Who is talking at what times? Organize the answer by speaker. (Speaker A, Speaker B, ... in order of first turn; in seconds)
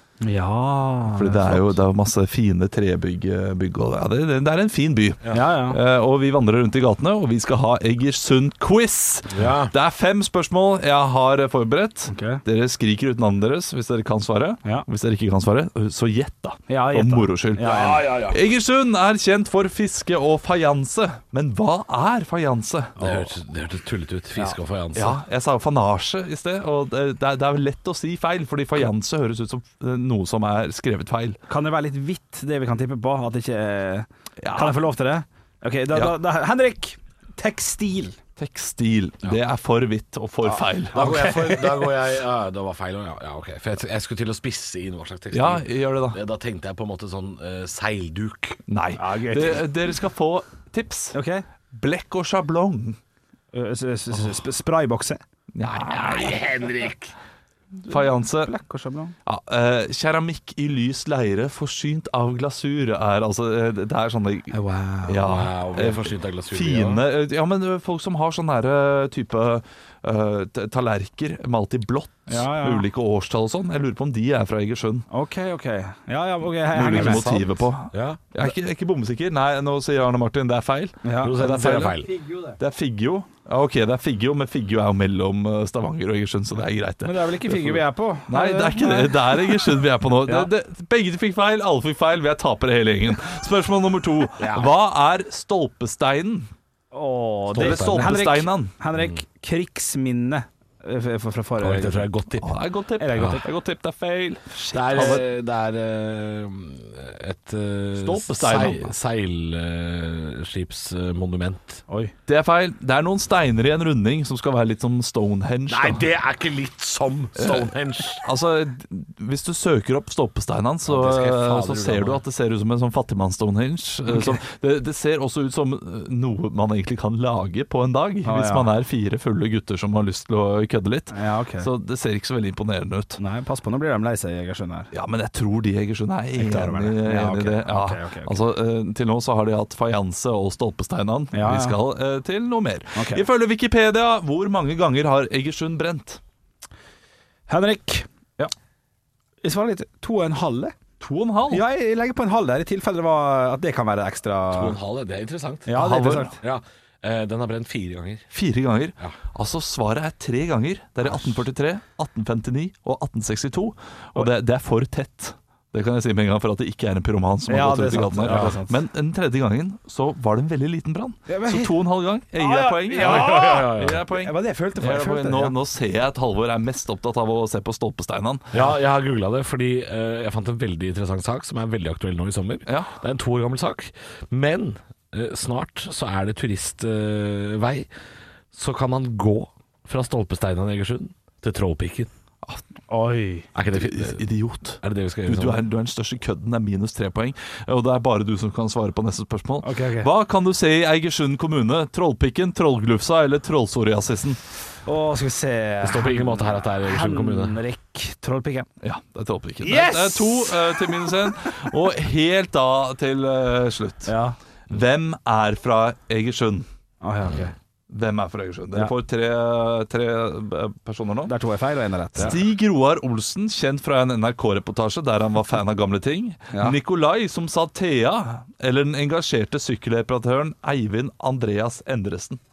Speaker A: 0.2-1.8, 5.3-5.8, 12.1-12.4, 16.7-18.2, 23.0-23.2, 31.5-38.2, 40.5-41.8, 49.0-49.6, 51.1-51.5, 53.5-55.2, 57.9-59.1, 64.5-65.2, 72.3-72.8, 75.1-77.5, 81.0-81.4, 87.0-90.5, 96.9-102.1, 103.0-103.5, 104.5-105.2, 111.9-112.1, 124.1-124.4, 128.2-128.7, 131.1-131.7, 133.2-134.9, 136.4-138.4, 141.3-141.8, 142.9-143.2, 147.5-148.5, 149.4-150.8, 151.5-154.8, 155.7-156.4, 167.5-168.8, 171.3-171.8, 172.3-175.6, 192.9-193.5, 199.6-200.1, 204.9-208.7, 209.6-211.2, 214.1-214.4, 217.0-217.5, 221.3-222.4
Speaker B: 1.1-22.9, 24.9-31.4, 34.4-34.8, 38.4-41.1, 45.3-46.2, 48.7-51.2, 51.7-53.0, 55.5-56.4, 57.8-58.5, 59.3-64.5, 65.1-75.1, 76.7-96.5, 97.5-98.7, 102.4-105.2, 108.0-108.9, 112.3-116.1, 117.4-133.2, 134.9-146.2, 151.0-151.6, 155.8-156.4, 158.3-178.5, 182.7-183.0, 193.7-204.4, 208.8-214.1, 214.7-216.7, 217.9-221.3, 222.2-232.4
Speaker C: 9.3-9.7, 17.6-18.4, 23.0-25.2, 40.9-48.6, 55.8-57.1, 65.2-67.0, 76.9-78.2, 81.2-82.2, 94.4-94.7, 97.5-98.2, 101.6-102.5, 104.7-111.8, 115.7-118.2, 120.8-122.2, 154.5-155.8, 156.4-158.3, 168.3-168.6, 173.0-174.0, 178.5-187.9, 188.5-192.1, 193.6-194.3, 194.8-195.6, 205.8-207.6